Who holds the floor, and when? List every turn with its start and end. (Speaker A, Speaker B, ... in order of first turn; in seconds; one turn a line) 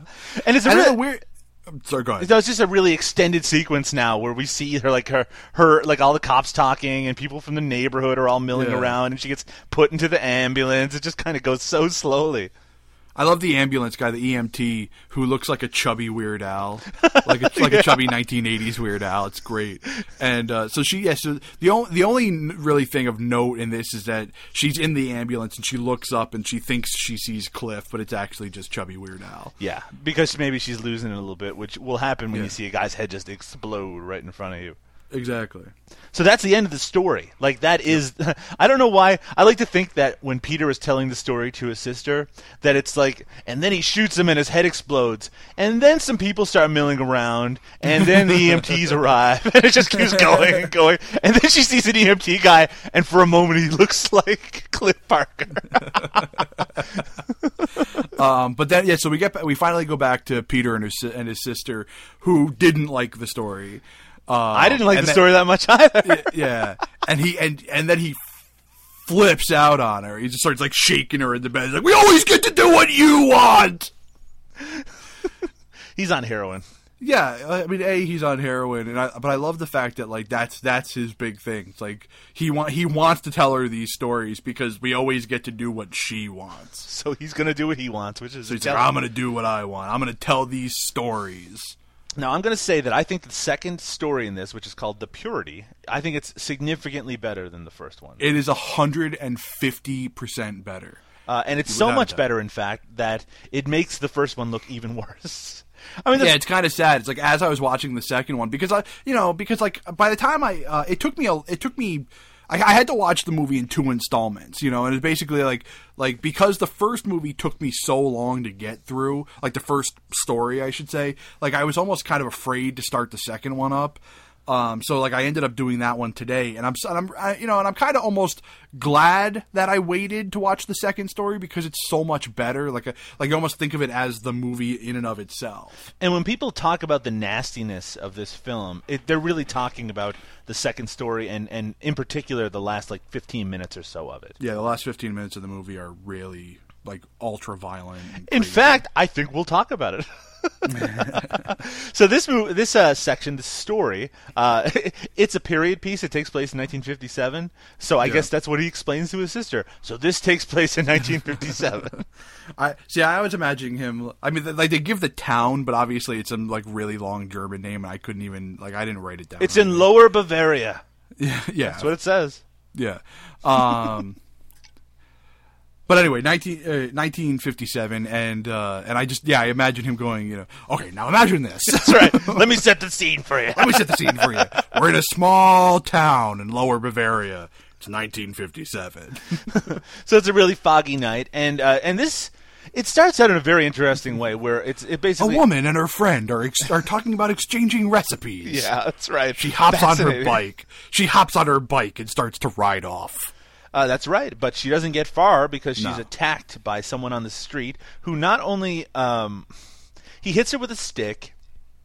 Speaker A: 0.3-1.0
Speaker B: 0.6-2.3
Speaker A: 2.2-12.5
Speaker B: 8.5-9.0
Speaker B: 13.2-29.5
Speaker A: 17.0-18.1
Speaker A: 29.6-34.8
Speaker B: 35.1-35.7
Speaker A: 36.1-56.3
Speaker B: 47.9-48.7
Speaker B: 50.0-50.6
Speaker B: 58.1-68.4
Speaker A: 64.5-66.6
Speaker B: 69.0-73.9
Speaker A: 76.0-76.7
Speaker B: 77.0-86.9
Speaker A: 86.9-88.9
Speaker B: 88.5-91.8
Speaker A: 92.2-98.3
Speaker B: 98.2-101.0
Speaker A: 101.3-106.4
Speaker B: 101.7-102.2
Speaker B: 106.2-135.9
Speaker A: 136.0-144.4
Speaker B: 144.4-148.8
Speaker A: 148.3-162.0
Speaker B: 150.7-151.5
Speaker B: 158.0-158.3
Speaker B: 162.6-169.9
Speaker A: 169.4-170.8
Speaker B: 171.2-171.9
Speaker A: 171.7-172.4
Speaker B: 172.7-174.2
Speaker B: 175.9-182.6
Speaker A: 181.7-184.6
Speaker B: 183.6-189.4
Speaker A: 189.5-195.4
Speaker B: 195.2-198.7
Speaker A: 198.4-200.4
Speaker B: 199.4-203.3
Speaker A: 203.7-209.5
Speaker B: 205.8-206.1
Speaker A: 210.2-211.3